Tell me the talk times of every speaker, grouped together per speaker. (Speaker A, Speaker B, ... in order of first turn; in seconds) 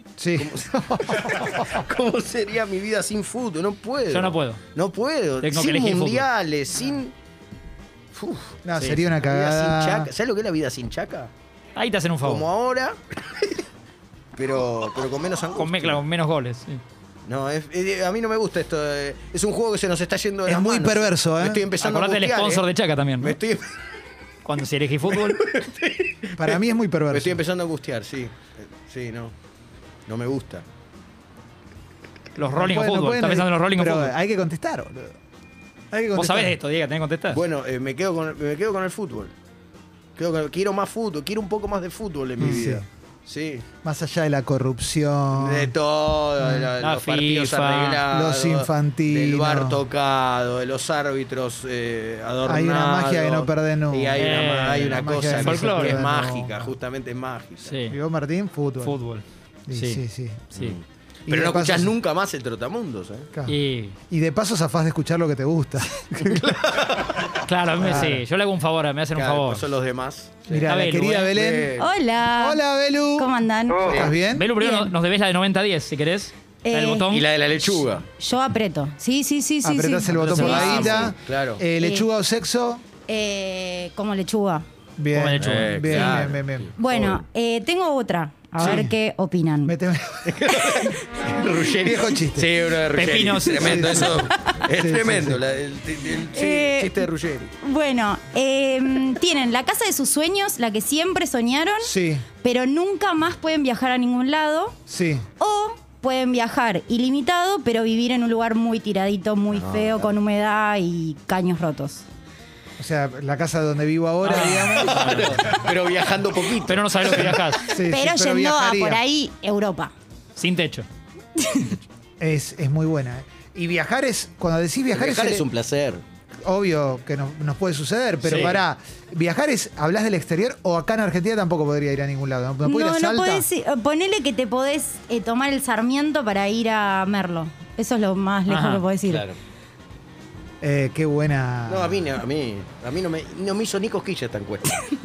Speaker A: 0.2-1.8, 8.6-10.1, 20.5-21.7, 26.4-27.4, 32.5-35.1, 35.9-36.5, 42.4-42.9, 43.8-45.7, 46.4-46.7, 48.1-49.8, 52.4-56.6, 57.8-59.0, 59.7-60.5, 61.3-61.9, 64.1-66.6, 67.8-68.2, 70.5-74.5, 79.6-82.8, 85.0-86.7, 88.6-88.9, 89.6-90.8, 91.7-92.6, 93.5-95.4, 101.8-102.2, 104.9-105.2, 112.8-115.6, 117.7-119.0, 122.2-125.5, 126.4-133.5, 140.6-142.0
Speaker B: 0.3-7.1, 8.1-8.6, 9.2-11.3, 12.2-13.0, 14.3-16.0, 17.3-22.6, 23.2-23.8, 25.1-29.3, 30.1-30.6, 37.3-39.3, 40.2-43.6, 45.3-57.8, 60.5-63.3, 66.2-67.3, 69.2-70.7, 71.3-71.9, 73.7-74.1, 77.1-78.0, 80.2-81.6, 85.4-87.2, 90.2-97.5, 109.5-110.1, 114.3-117.7, 124.9-126.0, 139.1-139.3, 141.7-144.7
Speaker C: 4.1-4.6, 5.4-6.3, 8.8-9.0, 11.8-12.5, 15.5-16.8, 21.8-23.4, 24.4-25.5, 32.4-34.1, 36.1-37.4, 46.8-48.0, 54.2-56.0, 57.6-58.0, 58.8-60.0, 63.5-63.9, 67.3-69.7, 70.7-71.3, 74.3-77.3, 80.2-80.8, 85.1-86.2, 88.6-88.8, 92.9-94.1, 114.2-115.6, 116.6-117.7, 120.3-120.9, 128.2-128.6, 138.5-138.8
Speaker D: 71.8-72.6, 73.2-74.0, 74.5-74.9, 76.6-77.1, 78.2-80.9, 81.8-82.1, 83.1-84.6, 86.8-89.8, 94.3-94.6, 96.3-97.0, 97.6-104.8, 105.4-112.0, 117.7-119.9, 121.4-121.8, 132.6-139.2